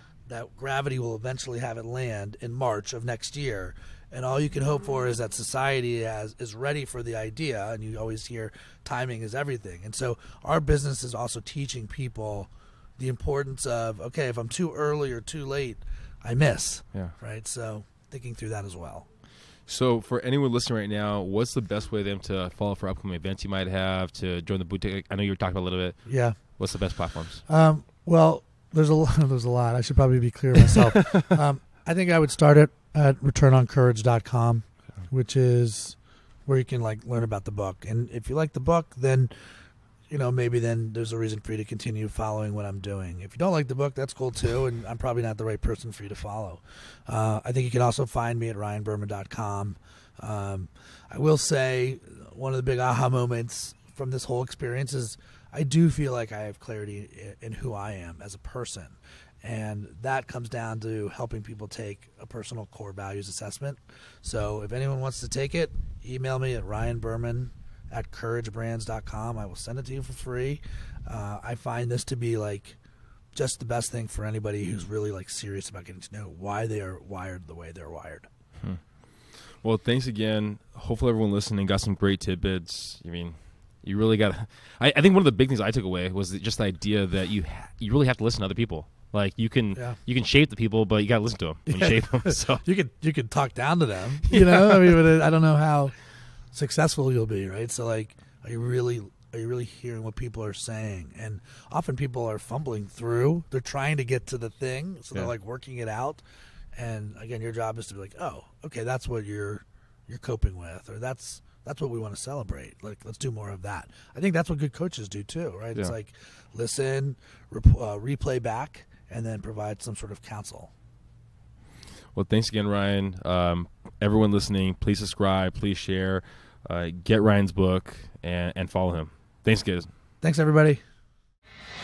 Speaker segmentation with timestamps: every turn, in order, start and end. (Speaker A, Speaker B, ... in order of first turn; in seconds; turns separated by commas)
Speaker A: 0.3-19.1, Speaker B: 19.7-27.4, Speaker A: 26.1-26.4, Speaker A: 27.5-39.3, Speaker A: 40.1-72.8, Speaker A: 73.3-78.3, Speaker B: 78.6-92.6, Speaker A: 91.7-95.9, Speaker B: 94.3-94.7, Speaker A: 96.5-106.2, Speaker A: 106.7-120.7, Speaker B: 122.1-129.9, Speaker A: 130.2-130.8